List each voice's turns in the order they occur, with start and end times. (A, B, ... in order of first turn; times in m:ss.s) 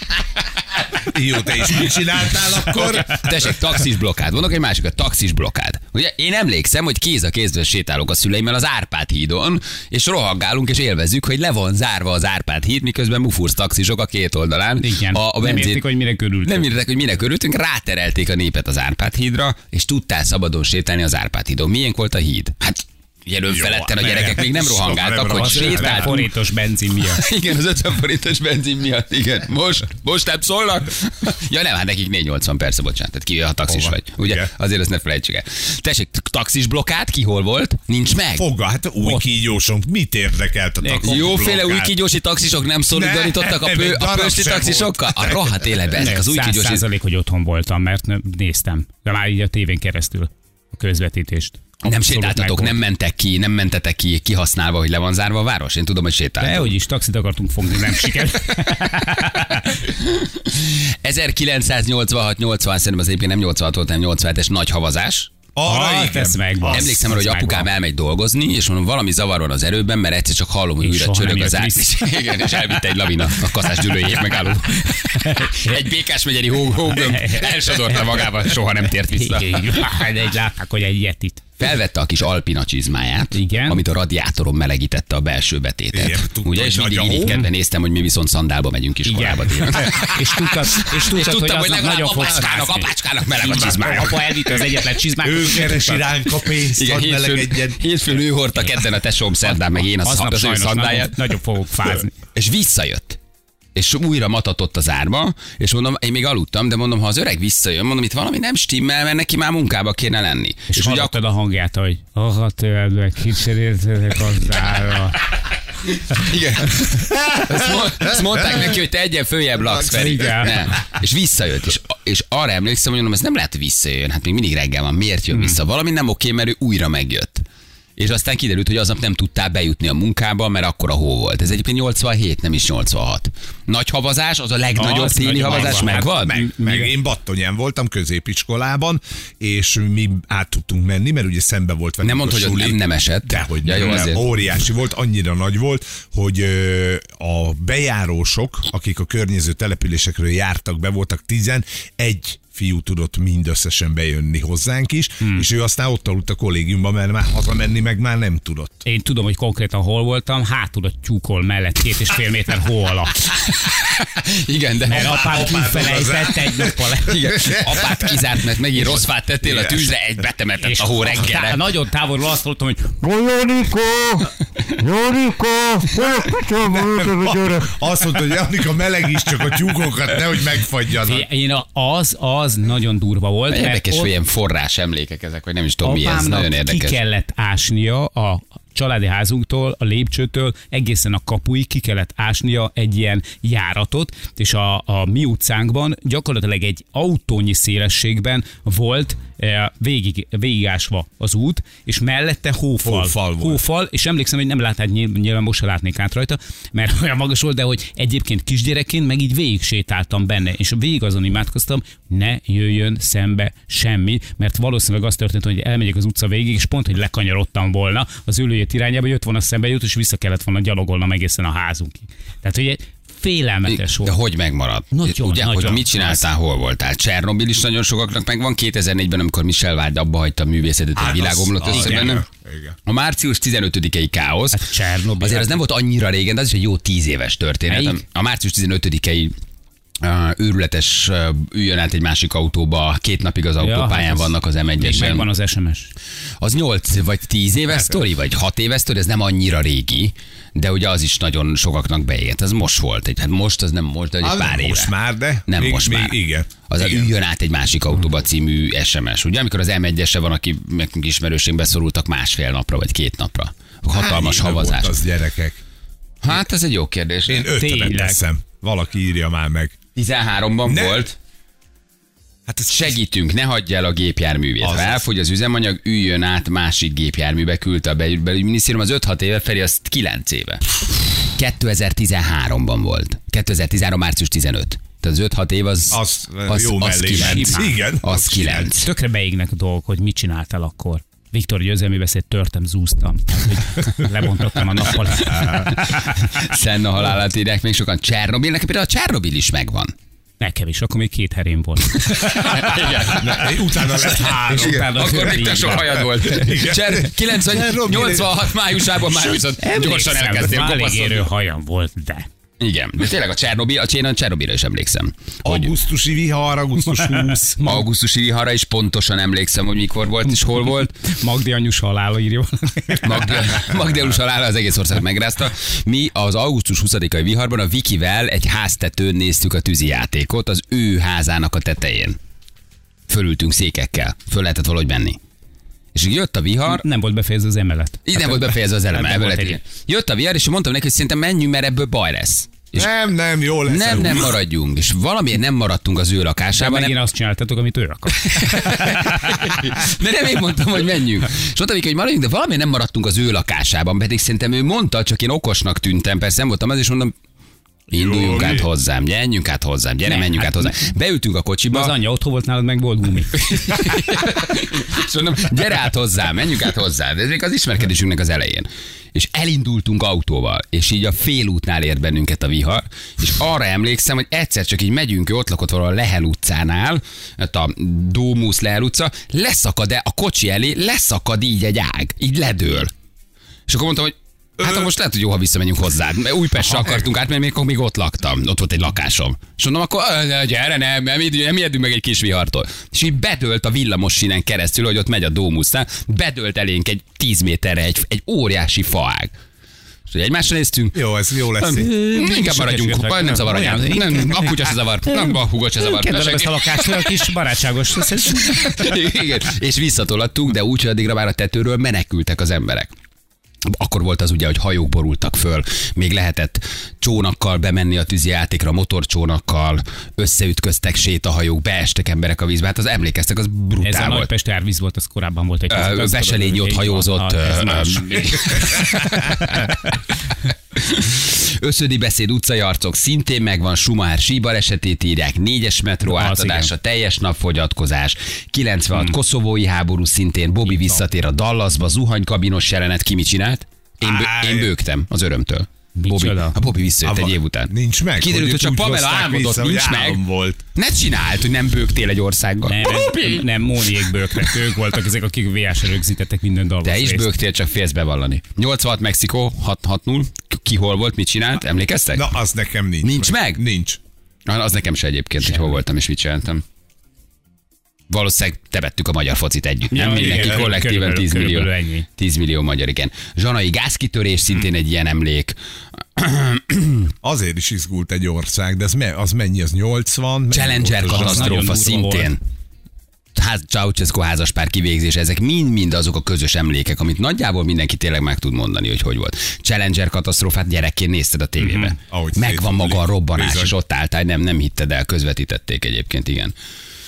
0:01.0-0:03.6 A
0:01.8-0:15.9 B
0:14.8-0:16.7 C
0:16.4-0:26.3 B
0:23.5-0:26.2 A
0:25.3-0:27.2 C
0:27.0-0:38.5 B
0:33.6-0:34.5 A
0:38.4-0:41.9 A
0:39.0-0:39.3 C
0:40.8-0:41.4 C
0:41.0-0:46.8 B
0:42.9-0:45.4 A
0:45.9-0:52.8 C
0:51.8-0:56.7 B
0:56.4-0:59.7 C
0:59.5-1:05.3 B
1:05.5-1:07.0 A
1:05.6-1:07.7 C
1:06.7-1:19.9 B
1:10.8-1:12.7 C
1:14.8-1:15.8 C
1:16.9-1:18.3 C
1:19.1-1:21.4 C
1:21.6-1:34.3 B
1:23.3-1:23.8 C
1:25.9-1:27.4 A
1:29.0-1:36.0 C
1:33.4-1:34.2 A
1:35.2-1:37.8 A
1:36.5-1:41.2 B
1:39.9-1:42.1 C
1:42.3-1:43.2 B
1:43.7-1:51.2 B
1:50.7-1:55.2 C
1:55.9-2:07.4 B
1:57.1-1:57.5 A
1:59.8-2:00.6 C
2:00.0-2:00.3 A
2:05.3-2:05.6 C
2:08.0-2:16.4 B
2:14.8-2:16.9 C
2:15.6-2:38.8 A
2:22.0-2:24.2 B
2:35.2-2:35.5 C
2:38.8-2:43.3 C
2:43.3-2:46.0 B
2:44.8-2:47.5 C
2:44.9-2:48.0 A
2:47.0-2:51.6 B
2:49.4-2:49.9 A
2:50.6-2:54.2 C
2:55.9-3:01.2 A
3:01.0-3:04.1 C
3:03.5-3:07.0 B
3:05.8-3:44.2 C
3:22.8-3:23.6 A
3:43.6-3:52.2 B
3:44.9-3:46.2 C
3:51.0-3:52.7 A
3:51.7-3:52.2 C
3:52.9-3:54.7 B
3:54.5-3:55.6 C
3:55.2-3:59.3 B
3:57.7-3:58.0 C
4:00.0-4:05.3 B
4:03.6-4:05.9 C
4:06.4-4:14.9 B
4:14.2-4:17.1 A
4:15.5-4:25.0 B
4:23.9-4:25.6 A
4:26.2-4:27.5 B
4:27.2-4:29.8 A
4:27.5-4:28.2 C
4:29.9-4:31.2 B
4:30.6-4:31.1 A
4:32.5-4:33.0 A
4:32.7-4:48.9 B
4:34.6-4:35.0 A
4:45.9-4:48.8 A
4:47.1-4:47.8 C
4:48.8-4:56.2 C
4:55.1-4:59.9 B
4:55.3-4:55.6 A
5:00.4-5:02.9 C
5:01.9-5:11.3 B
5:02.5-5:08.4 A
5:04.2-5:06.3 C
5:09.6-5:12.3 C
5:12.6-5:15.8 B
5:15.4-5:17.6 A
5:17.0-5:17.9 C
5:17.6-5:21.0 B
5:21.0-5:23.5 C
5:23.0-5:32.2 B
5:33.1-5:35.2 B
5:35.9-5:36.8 B
5:36.6-5:39.6 C
5:38.1-5:42.9 B
5:42.7-5:44.4 A
5:43.6-5:46.9 B
5:46.5-5:49.4 C
5:48.1-5:57.1 B
5:57.9-6:01.9 B
5:57.9-5:58.7 A
6:00.0-6:00.9 C
6:01.7-6:03.5 C
6:03.4-6:22.9 B
6:23.7-6:39.3 B
6:40.1-6:47.4 B
6:40.9-6:41.9 A
6:41.7-6:49.0 C
6:48.0-6:52.9 B
6:53.7-7:04.3 B
7:03.8-7:09.6 C
7:05.7-7:09.9 B
7:10.8-7:30.2 B
7:16.0-7:16.7 C
7:24.0-7:24.7 A
7:26.0-7:26.6 C
7:27.0-7:30.6 A
7:30.7-7:33.5 B
7:32.6-7:37.3 C
7:34.1-7:34.8 B
7:36.8-7:42.3 B
7:42.1-7:44.0 A
7:43.0-7:43.6 B
7:44.5-7:46.6 B
7:48.1-7:55.6 B
7:49.9-7:52.1 C
7:50.3-7:50.6 A
7:56.2-7:57.1 B
7:57.2-8:01.6 A
8:00.5-8:02.4 B
8:01.1-8:02.4 C
8:03.3-8:16.5 B
8:11.6-8:12.0 C
8:12.0-8:13.7 A